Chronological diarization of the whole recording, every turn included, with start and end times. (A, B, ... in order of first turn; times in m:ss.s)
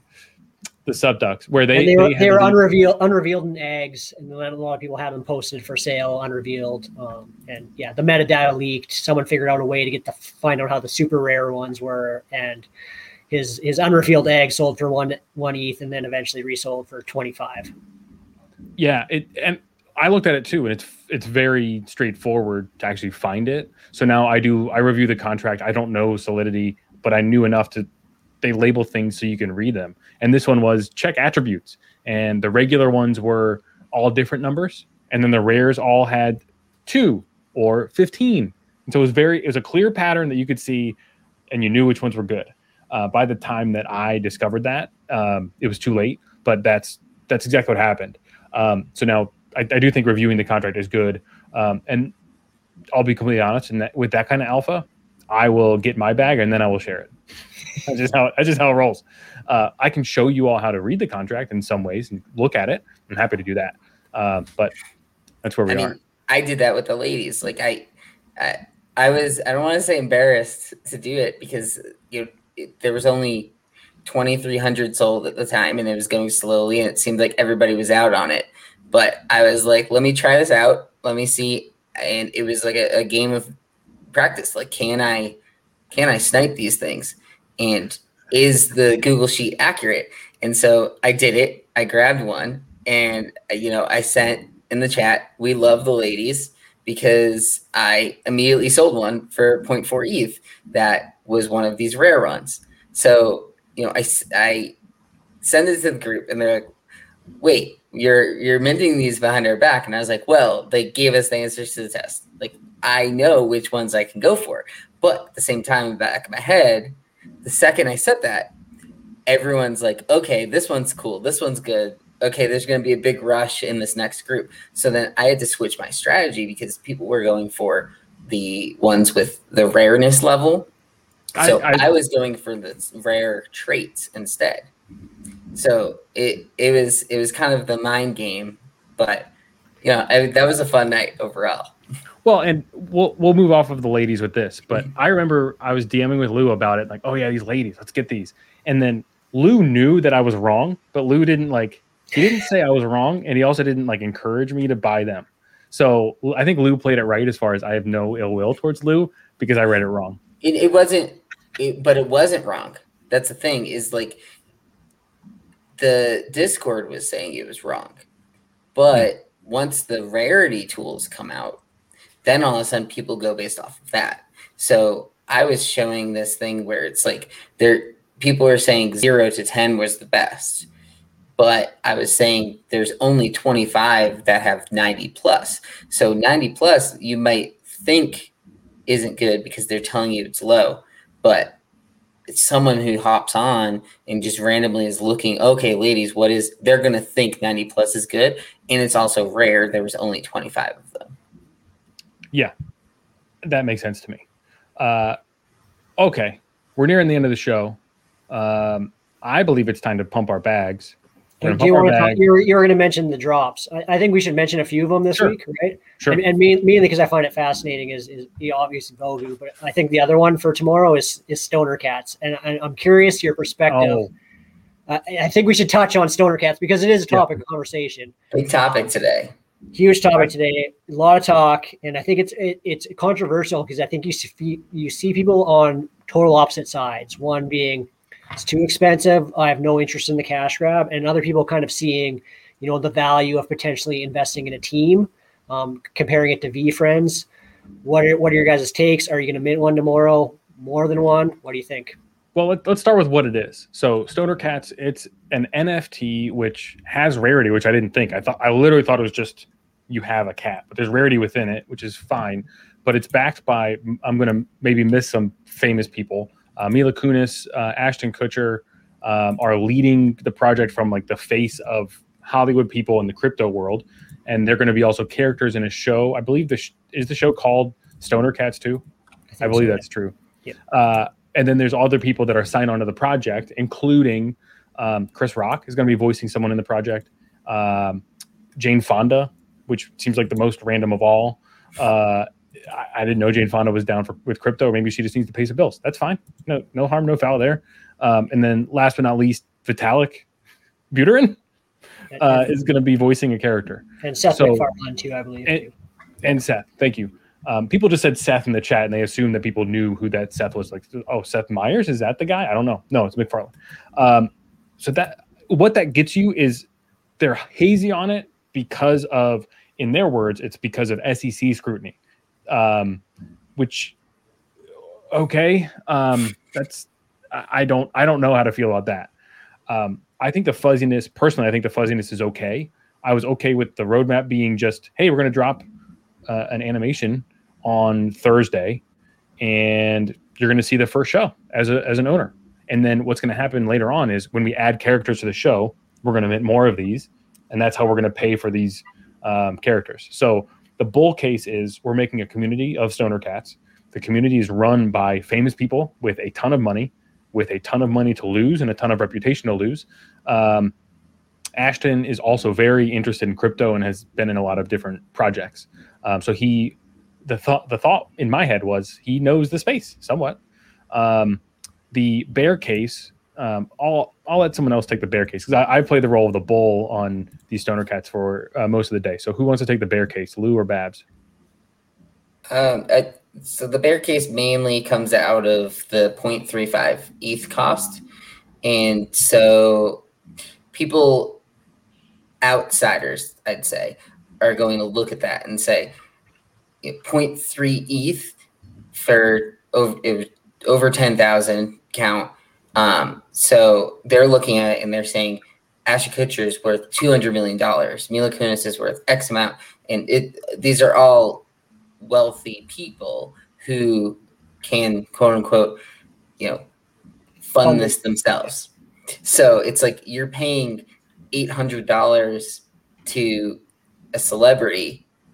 0:00.9-0:02.6 A
0:01.7-0:12.7 B
0:13.3-0:17.7 B
0:18.8-0:27.9 A
0:28.4-0:41.0 A
0:41.5-0:52.1 A
0:52.9-0:57.1 A
0:57.8-1:04.7 A
1:05.4-1:06.0 A
1:05.7-1:13.5 C
1:14.0-1:23.5 C
1:24.1-1:25.4 C
1:25.9-1:44.7 C
1:45.4-1:46.7 C
1:47.4-1:58.5 C
1:59.3-2:10.7 C
2:11.4-2:14.7 C
2:11.4-2:11.9 A
2:15.6-2:19.3 C
2:19.8-2:21.7 C
2:22.2-2:40.2 A
2:40.4-2:44.2 C
2:45.8-2:48.1 C
2:48.8-2:51.6 C
2:52.2-3:00.7 C
3:01.4-3:08.3 C
3:08.9-3:11.6 C
3:12.3-3:21.1 C
3:23.4-3:24.2 A
3:24.8-3:25.2 A
3:26.0-3:27.8 A
3:28.3-3:32.2 A
3:31.4-3:44.1 B
3:43.7-3:44.1 A
3:44.9-3:48.1 B
3:48.3-3:49.3 C
3:49.7-4:07.3 B
4:07.8-4:12.0 B
4:12.4-4:38.8 A
4:39.3-4:39.8 B
4:39.4-4:40.1 A
4:40.7-4:48.0 A
4:48.6-5:00.2 A
5:00.9-5:01.4 A
5:02.1-5:02.5 B
5:02.2-5:04.7 A
5:04.0-5:05.7 B
5:06.2-5:16.7 A
5:17.2-5:22.0 A
5:22.5-5:23.0 A
5:23.6-5:24.0 A
5:25.1-5:29.1 A
5:29.7-5:35.6 A
5:36.3-5:38.8 A
5:39.4-6:00.7 A
6:01.6-6:10.4 A
6:10.9-6:21.0 A
6:22.5-6:28.0 C
6:28.6-6:30.0 C
6:30.7-6:31.4 C
6:32.4-6:36.0 C
6:36.8-6:38.3 C
6:38.9-6:51.5 C
6:52.0-6:55.8 C
6:56.4-6:56.6 C
6:57.5-6:58.7 C
6:57.6-6:57.9 B
6:59.2-7:03.6 C
7:04.1-7:05.0 C